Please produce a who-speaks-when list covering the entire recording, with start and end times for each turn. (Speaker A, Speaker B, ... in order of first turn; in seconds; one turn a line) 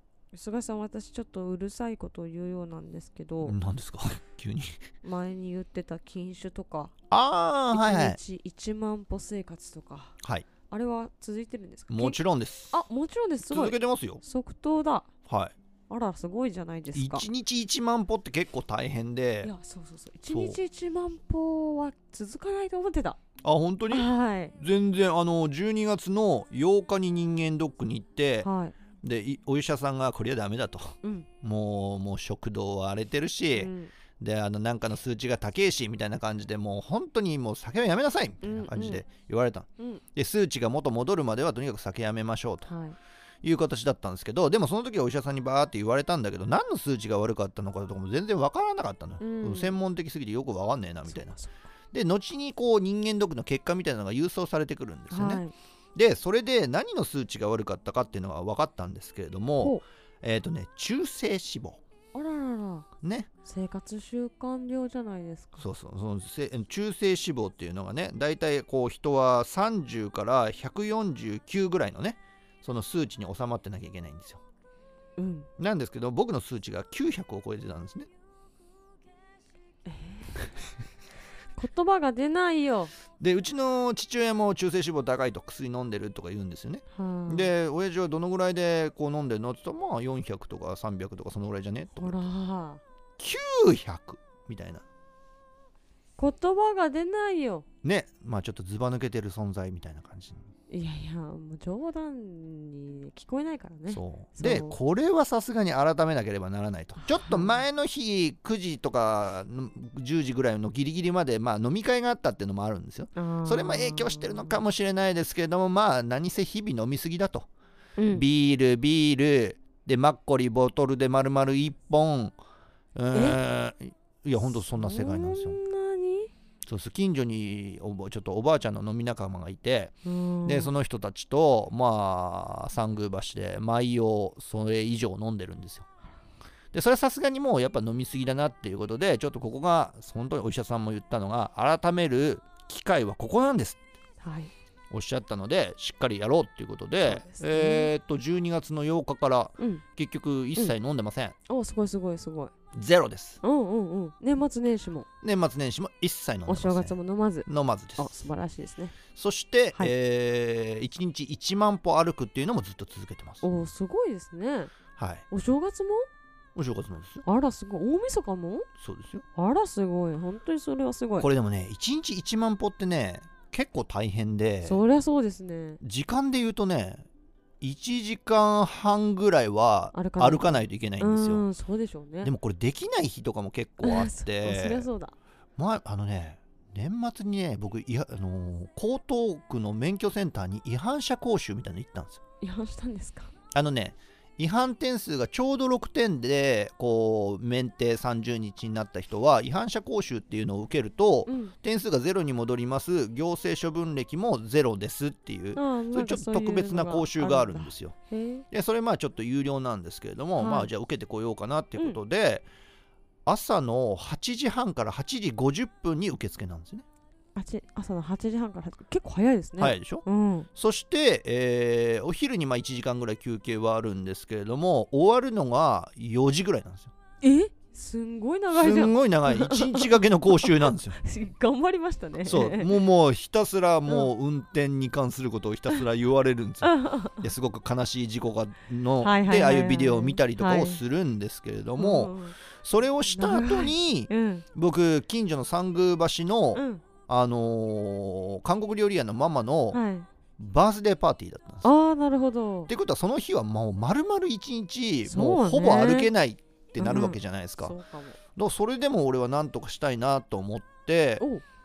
Speaker A: 0.3-3.6
Speaker B: 3.4-4.8
Speaker A: 5.0-6.9
Speaker B: 7.1-8.2
Speaker A: 7.7-10.2
Speaker B: 10.2-10.5
Speaker A: 10.7-12.2
Speaker B: 11.9-12.8
Speaker A: 12.7-15.1
Speaker B: 13.4-14.2
Speaker B: 15.3-15.5
Speaker A: 15.9-17.3
Speaker B: 16.9-19.5
Speaker A: 19.4-23.2
Speaker B: 20.3-20.6
Speaker B: 23.4-28.5
Speaker A: 23.9-24.5
Speaker A: 28.4-28.7
Speaker B: 29.0-42.7
Speaker A: 33.5-33.9
Speaker A: 38.4-39.0
Speaker A: 42.6-43.0
Speaker B: 43.4-51.4
Speaker A: 49.2-49.8
Speaker A: 51.1-51.6
Speaker B: 51.9-55.4
Speaker A: 55.1-55.5
Speaker B: 55.9-61.8
Speaker A: 62.1-62.9
Speaker B: 63.0-63.3
Speaker A: 63.4-65.7
Speaker B: 65.6-74.4
Speaker A: 75.2-75.5
Speaker B: 75.6-78.1
Speaker A: 79.8-80.5
Speaker A: 81.5-82.9
Speaker B: 83.2-92.2
Speaker A: 86.9-87.5
Speaker A: 92.0-92.8
Speaker B: 93.2-94.8
Speaker A: 96.2-97.6
Speaker B: 97.8-100.4
Speaker A: 100.7-104.8
Speaker B: 103.9-117.5
Speaker A: 107.0-107.6
Speaker A: 113.2-114.6
Speaker A: 118.0-118.2
Speaker B: 118.1-122.3
Speaker B: 122.9-125.6
Speaker A: 123.1-123.4
Speaker A: 124.5-126.3
Speaker B: 126.6-135.8
Speaker A: 130.0-130.7
Speaker B: 136.7-143.8
Speaker A: 144.2-144.5
Speaker B: 144.9-151.3
Speaker A: 147.0-147.9
Speaker A: 149.6-149.8
Speaker A: 151.5-152.5
Speaker B: 152.7-153.4
Speaker A: 153.4-155.1
Speaker B: 155.2-158.2
Speaker A: 156.5-158.9
Speaker B: 159.1-163.4
Speaker A: 163.4-164.7
Speaker B: 165.0-165.2
Speaker A: 165.3-166.1
Speaker B: 166.5-167.2
Speaker A: 167.2-168.7
Speaker B: 168.8-169.2
Speaker A: 169.3-171.3
Speaker B: 171.2-174.8
Speaker A: 174.6-175.8
Speaker B: 175.8-177.1
Speaker B: 177.6-181.4
Speaker A: 179.9-182.3
Speaker B: 182.2-184.9
Speaker A: 183.8-185.1
Speaker B: 185.6-192.2
Speaker A: 192.4-193.3
Speaker B: 193.5-207.9
Speaker A: 201.2-201.5
Speaker A: 205.5-208.4
Speaker B: 208.5-212.4
Speaker A: 210.4-210.7
Speaker B: 213.2-216.8
Speaker A: 217.3-220.5
Speaker B: 219.6-226.9
Speaker A: 227.2-232.7
Speaker B: 228.5-231.0
Speaker B: 232.2-249.8
Speaker A: 236.6-237.3
Speaker A: 239.0-240.8
Speaker A: 241.8-242.3
Speaker A: 243.1-244.4
Speaker A: 246.5-246.8
Speaker A: 249.7-250.1
Speaker B: 250.4-251.7
Speaker A: 251.6-252.7
Speaker B: 252.7-257.8
Speaker A: 255.1-256.1
Speaker A: 256.8-258.2
Speaker B: 258.3-261.2